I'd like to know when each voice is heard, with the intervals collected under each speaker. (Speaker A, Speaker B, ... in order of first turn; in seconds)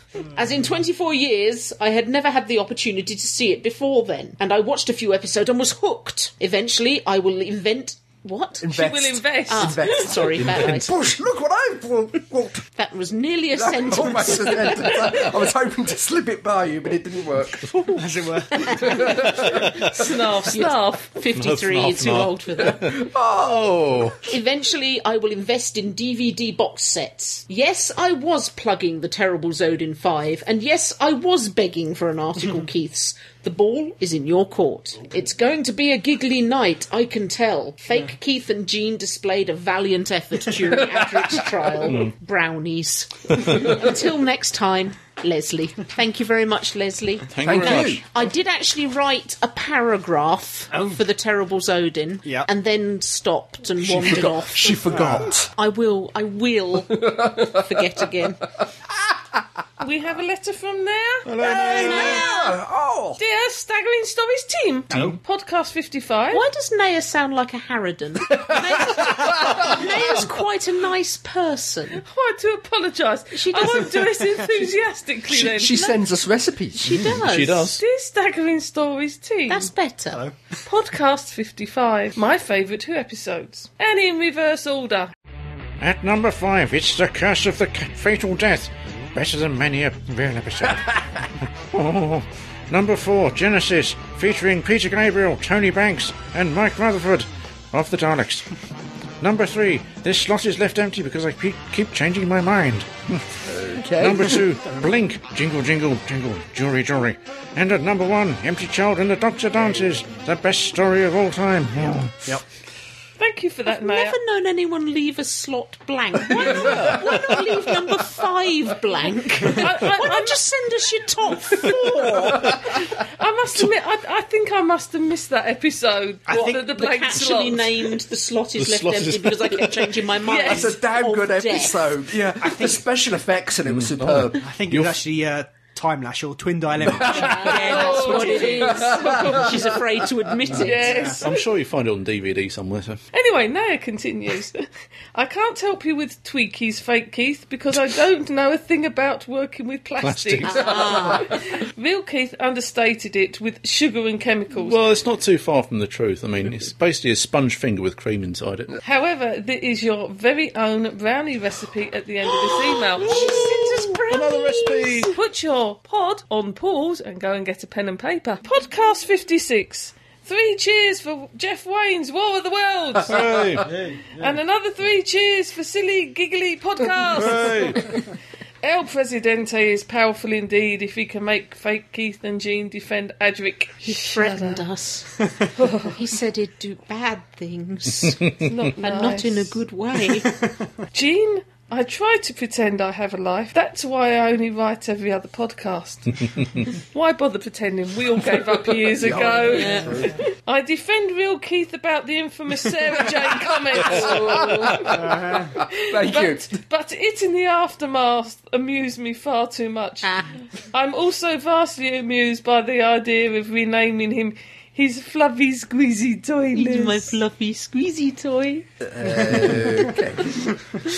Speaker A: 0.3-8.8, 9.5-11.1, 12.8-15.3, 18.6-19.5, 20.5-23.0, 24.3-58.5, 61.5-62.5, 66.3-72.0, 73.3-74.0, 76.8-77.7, 79.5-80.2, 113.7-122.6, 126.3-131.9, 137.1-141.1, 150.4-151.4, 162.3-165.0, 183.8-185.1, 185.8-188.2, 188.8-190.3, 199.4-200.1, 210.0-210.3, 216.6-218.7
Speaker B: 8.6-12.7, 13.6-17.7, 19.0-19.9, 22.7-24.1, 47.4-48.0, 53.9-55.5, 56.9-57.6, 61.4-63.2, 68.4-69.7, 75.3-76.8, 103.5-104.5, 130.4-134.4, 137.2-138.3, 163.2-163.7, 198.8-200.2, 203.0-206.6, 218.8-220.4
Speaker C: 8.7-10.2, 19.9-21.1, 59.8-62.2, 63.2-66.4, 72.0-76.0, 77.8-79.7, 80.7-85.1, 113.2-114.2, 119.5-120.4, 122.4-127.9, 130.3-130.7, 137.6-139.2, 140.6-141.4, 143.1-154.8, 158.8-163.4, 164.8-173.2, 174.2-178.0, 178.6-184.6, 185.6-186.0, 188.4-189.6, 190.9-210.1, 210.6-217.2
Speaker D: 10.4-10.7, 21.4-24.2, 47.3-48.0, 61.3-62.2, 76.9-77.8, 116.4-117.1, 128.6-129.9, 133.7-135.1, 136.8-137.2, 141.2-143.0, 150.0-150.8, 154.5-158.8, 164.1-165.1, 173.0-173.7, 177.2-177.8
Speaker E: 17.9-19.1, 50.7-51.0, 54.9-55.3, 64.9-65.2, 80.1-80.4, 126.3-126.6, 132.4-132.8, 134.4-138.5, 140.5-141.2, 173.6-174.4, 205.0-205.4, 219.2-219.7
Speaker F: 85.8-90.8, 91.7-98.5, 99.2-103.2, 104.0-112.3